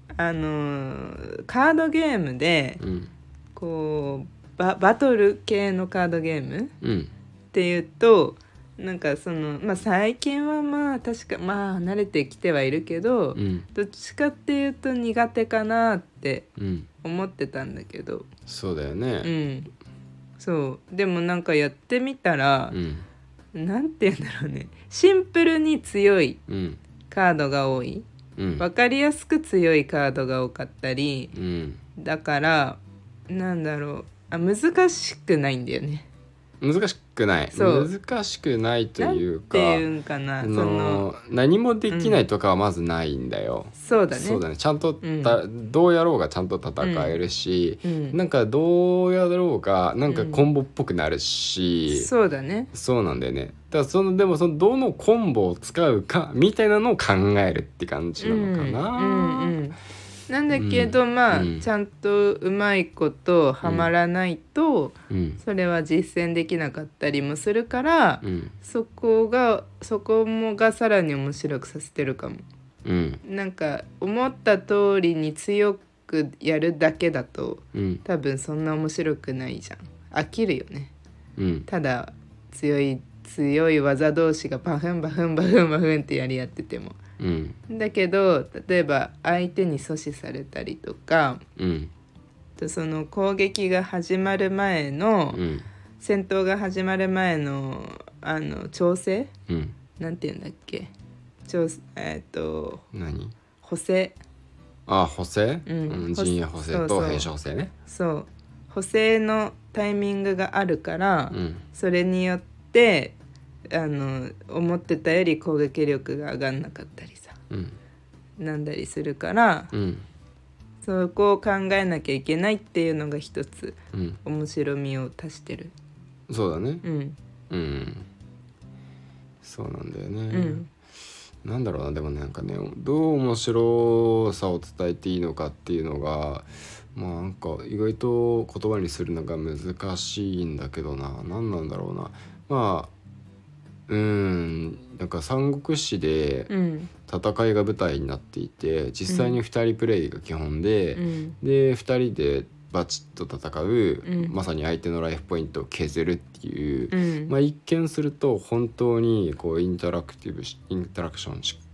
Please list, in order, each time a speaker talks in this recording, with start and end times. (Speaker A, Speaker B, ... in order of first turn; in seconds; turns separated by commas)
Speaker A: 0.2-2.8, Speaker B: 2.8-3.1, Speaker A: 3.5-6.7, Speaker B: 6.8-7.1, Speaker A: 7.5-16.5, Speaker B: 13.3-13.7, Speaker B: 16.6-16.9, Speaker A: 17.0-18.3, Speaker B: 18.5-19.3, Speaker A: 19.2-19.7, Speaker A: 20.4-22.8, Speaker B: 22.7-23.1, Speaker A: 23.5-26.4, Speaker B: 26.5-26.8, Speaker A: 27.1-28.1, Speaker B: 28.4-28.6, Speaker A: 28.6-31.3, Speaker B: 31.3-31.8, Speaker A: 32.0-36.1, Speaker B: 36.6-39.8, Speaker A: 37.5-37.9, Speaker A: 39.0-41.1, Speaker B: 40.4-52.1, Speaker A: 41.9-42.2, Speaker A: 43.8-44.4, Speaker A: 45.0-45.4, Speaker A: 46.8-47.1, Speaker A: 47.8-48.2, Speaker A: 50.1-50.4, Speaker A: 51.9-52.7, Speaker B: 52.7-59.6, Speaker A: 58.2-59.8, Speaker A: 60.3-72.5, Speaker B: 60.5-61.6, Speaker B: 63.6-63.9, Speaker B: 65.1-65.4, Speaker B: 68.2-68.5, Speaker B: 72.8-73.2, Speaker A: 73.2-80.9, Speaker B: 77.7-78.0, Speaker B: 81.4-81.7, Speaker A: 81.7-87.0, Speaker B: 87.2-87.6, Speaker A: 87.7-91.4, Speaker B: 91.6-91.9, Speaker A: 92.6-95.4, Speaker B: 95.3-95.7, Speaker A: 96.0-99.3, Speaker B: 99.5-99.7, Speaker A: 100.0-100.9, Speaker A: 101.5-102.8, Speaker B: 102.9-103.3, Speaker A: 103.6-104.2, Speaker B: 104.9-107.7, Speaker A: 105.7-107.3, Speaker A: 107.8-113.2, Speaker B: 111.3-111.6, Speaker A: 113.7-117.3, Speaker B: 117.5-117.8, Speaker A: 118.4-119.7, Speaker B: 119.7-120.0, Speaker A: 120.8-125.7, Speaker B: 123.9-124.2, Speaker B: 126.3-126.8, Speaker A: 126.8-127.2, Speaker B: 127.5-128.1, Speaker B: 129.4-130.6, Speaker A: 130.3-130.7, Speaker B: 131.4-142.9, Speaker B: 143.9-146.5, Speaker A: 146.5-146.9, Speaker B: 147.0-161.6, Speaker A: 149.1-149.4, Speaker A: 150.9-151.4, Speaker A: 154.0-154.3, Speaker A: 156.9-157.3